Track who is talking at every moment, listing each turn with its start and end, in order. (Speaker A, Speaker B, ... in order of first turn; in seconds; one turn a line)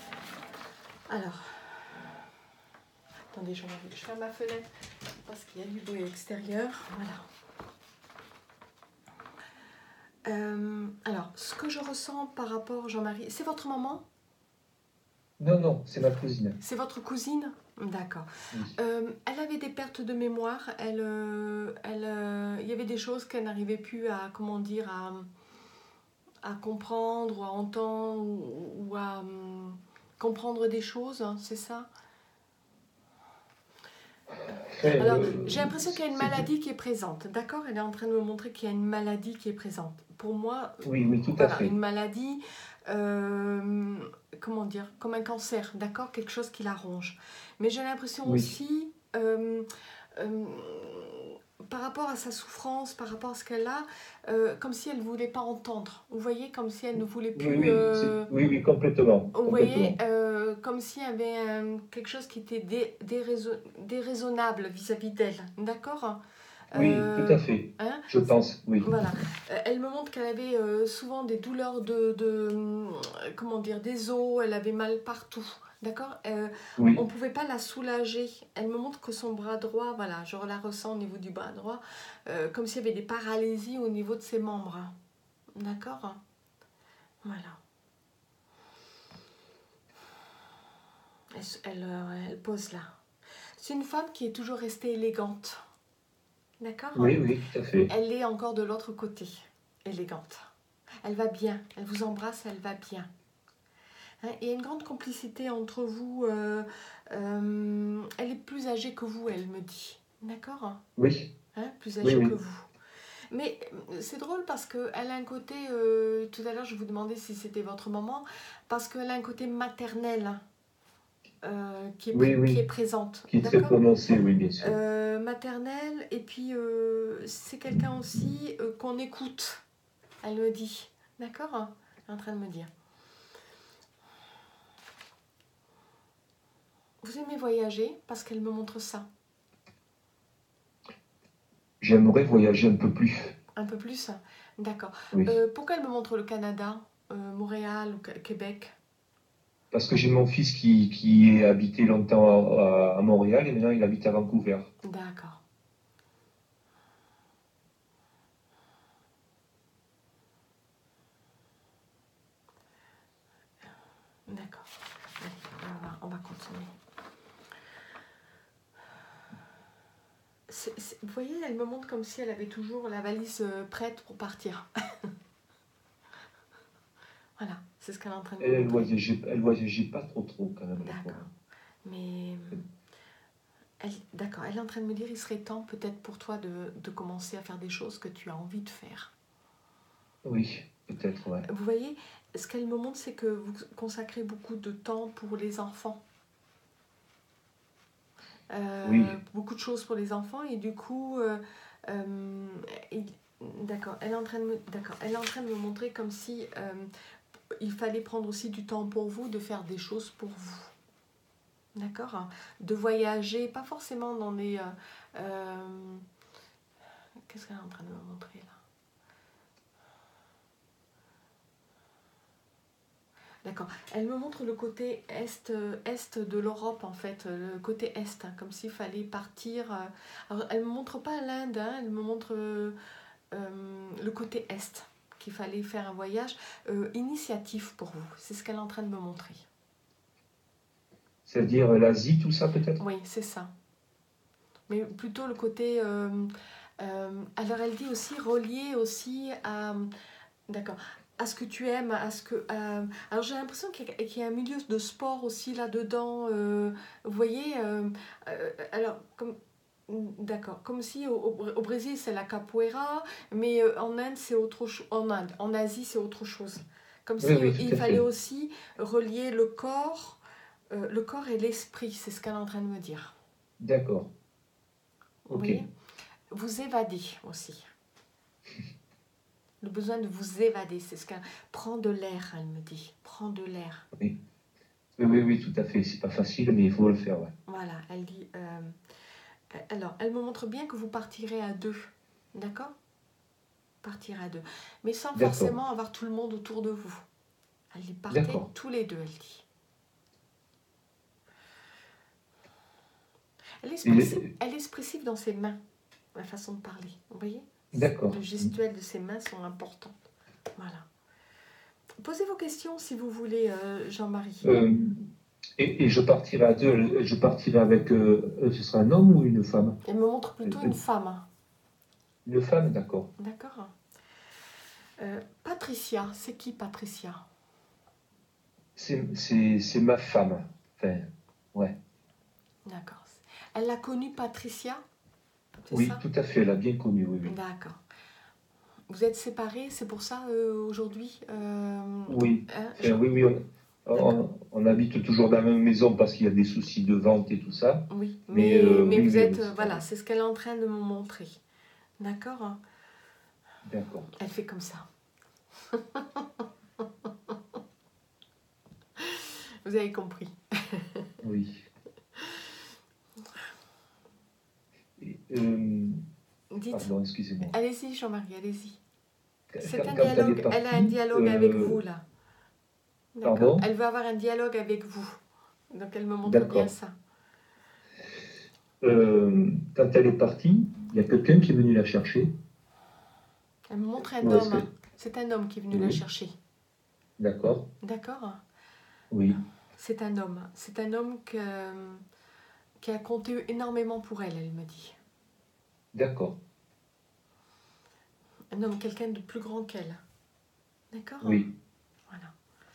Speaker A: 1.1-1.9
Speaker A: 3.3-4.7
Speaker A: 5.2-7.2
Speaker A: 10.3-14.1
Speaker B: 15.4-16.6
Speaker A: 16.6-25.3
Speaker A: 26.4-31.9
Speaker B: 34.6-36.5
Speaker A: 34.8-40.9
Speaker B: 40.8-41.7
Speaker A: 41.4-58.3
Speaker B: 48.2-48.5
Speaker B: 57.4-60.0
Speaker A: 59.3-84.9
Speaker B: 66.7-68.9
Speaker B: 76.8-77.0
Speaker A: 85.6-86.2
Speaker A: 87.2-87.6
Speaker A: 91.3-92.9
Speaker A: 93.6-95.6
Speaker A: 96.6-97.2
Speaker B: 97.0-97.9
Speaker A: 97.9-100.5
Speaker A: 101.0-103.1
Speaker A: 104.2-110.8
Speaker B: 111.0-111.3
Speaker A: 111.5-112.7
Speaker B: 112.0-112.3
Speaker A: 113.3-120.4
Speaker A: 121.4-123.8
Speaker B: 122.1-122.6
Speaker B: 123.3-124.8
Speaker A: 124.6-129.6
Speaker A: 130.2-132.7
Speaker A: 137.0-139.1
Speaker B: 141.8-143.4
Speaker A: 143.6-148.7
Speaker B: 149.7-154.7
Speaker A: 154.8-155.4
Speaker A: 164.3-166.7
Speaker A: 170.5-175.1
Speaker A: 177.4-178.9
Speaker B: 178.4-181.2
Speaker A: 180.8-181.3
Speaker A: 181.8-182.6
Speaker A: 183.8-189.1
Speaker B: 190.2-191.5
Speaker A: 191.5-196.0
Speaker A: 198.5-206.9
Speaker B: 198.8-199.2
Speaker A: 207.6-210.7
Speaker A: 211.8-216.0
Speaker A: 217.3-218.6
Speaker A: 223.4-232.8
Speaker A: 233.3-239.5
Speaker B: 241.3-242.8
Speaker A: 242.8-243.5
Speaker A: 244.7-249.9
Speaker A: 250.5-259.4
Speaker A: 259.9-270.2
Speaker B: 267.2-268.0
Speaker A: 270.7-273.2
Speaker B: 273.6-274.1
Speaker A: 275.3-275.7
Speaker B: 275.3-275.6
Speaker A: 276.3-277.7
Speaker A: 279.6-283.9
Speaker B: 285.0-287.3
Speaker A: 287.5-288.8
Speaker A: 289.5-292.8
Speaker A: 293.8-297.1
Speaker B: 295.1-295.6
Speaker A: 297.7-299.4
Speaker B: 298.1-298.5
Speaker A: 303.6-305.6
Speaker B: 303.8-304.3
Speaker A: 306.1-310.0
Speaker B: 307.7-308.5
Speaker A: 310.6-310.9
Speaker A: 312.0-314.5
Speaker B: 314.4-315.1
Speaker B: 315.6-319.8
Speaker A: 319.9-321.3
Speaker B: 320.4-320.8
Speaker B: 322.3-323.1
Speaker A: 323.2-323.7
Speaker A: 325.0-327.2
Speaker B: 328.8-331.8
Speaker A: 332.7-334.8
Speaker A: 335.6-336.0
Speaker B: 335.7-337.4
Speaker A: 337.2-337.8
Speaker A: 338.9-343.0
Speaker B: 342.1-349.8
Speaker A: 347.9-351.4
Speaker A: 352.0-352.6
Speaker B: 353.6-354.1
Speaker A: 354.2-354.9
Speaker A: 355.7-357.4
Speaker A: 359.0-361.1
Speaker B: 361.2-361.7
Speaker B: 365.0-366.0
Speaker A: 366.5-368.8
Speaker B: 366.7-367.6
Speaker B: 369.5-371.8
Speaker A: 369.6-372.0
Speaker A: 373.1-375.2
Speaker B: 373.2-373.7
Speaker A: 375.7-376.9
Speaker B: 376.2-376.7
Speaker B: 378.8-382.3
Speaker A: 383.7-386.3
Speaker B: 384.1-384.6
Speaker B: 385.7-386.0
Speaker B: 387.2-387.7
Speaker A: 387.8-388.4
Speaker B: 389.1-389.4
Speaker A: 389.8-392.0
Speaker A: 392.8-395.0
Speaker B: 395.9-396.4
Speaker A: 398.5-400.0
Speaker A: 400.9-401.4
Speaker B: 401.2-401.5